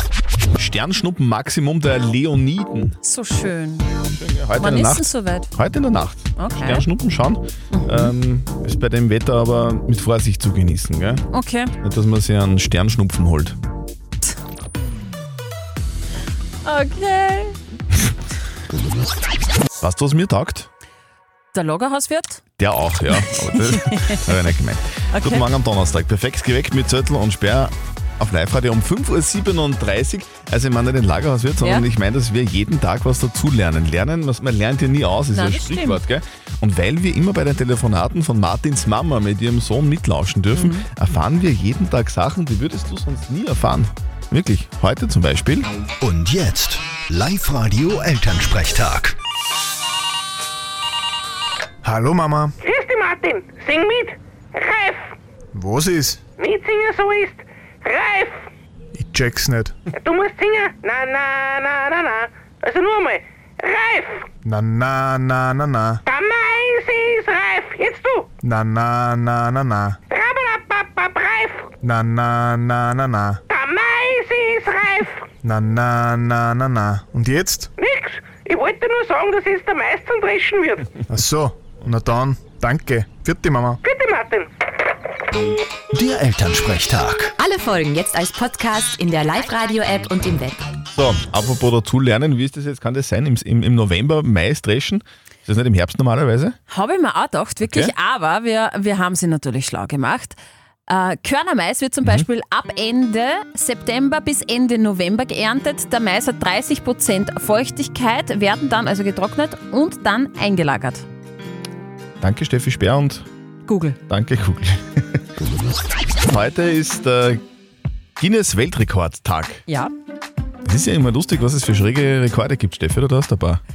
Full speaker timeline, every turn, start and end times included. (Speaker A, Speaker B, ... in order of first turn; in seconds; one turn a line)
Speaker A: 0.6-2.9
Speaker B: 3.0-3.9
Speaker A: 4.1-11.2
Speaker B: 4.6-5.5
Speaker B: 6.3-6.9
Speaker B: 7.7-8.1
Speaker B: 11.3-11.7
Speaker A: 11.8-13.6
Speaker B: 16.6-17.6
Speaker A: 19.8-20.7
Speaker B: 21.5-22.4
Speaker A: 22.6-45.7
Speaker B: 23.1-24.3
Speaker B: 25.1-25.4
Speaker B: 35.3-36.0
Speaker B: 40.5-40.9
Speaker C: 46.0-49.1
Speaker D: 51.8-52.5
Speaker E: 52.6-55.1
Speaker D: 55.5-56.2
Speaker E: 56.4-58.4
Speaker D: 59.0-59.9
Speaker E: 59.9-64.2
Speaker D: 64.4-66.0
Speaker E: 66.0-68.3
Speaker D: 68.4-70.0
Speaker E: 70.1-71.7
Speaker D: 71.8-73.4
Speaker E: 73.5-75.2
Speaker D: 75.4-77.7
Speaker E: 77.8-80.9
Speaker D: 81.1-83.8
Speaker E: 83.8-84.5
Speaker C: 85.9-87.3
Speaker F: 87.4-90.6
Speaker A: 90.9-96.6
Speaker B: 96.7-111.0
Speaker A: 97.6-97.9
Speaker A: 112.2-113.2
Speaker B: 113.7-114.0
Speaker A: 114.1-115.0
Speaker A: 116.3-117.4
Speaker A: 118.2-119.6
Speaker B: 119.7-119.9
Speaker A: 120.6-123.6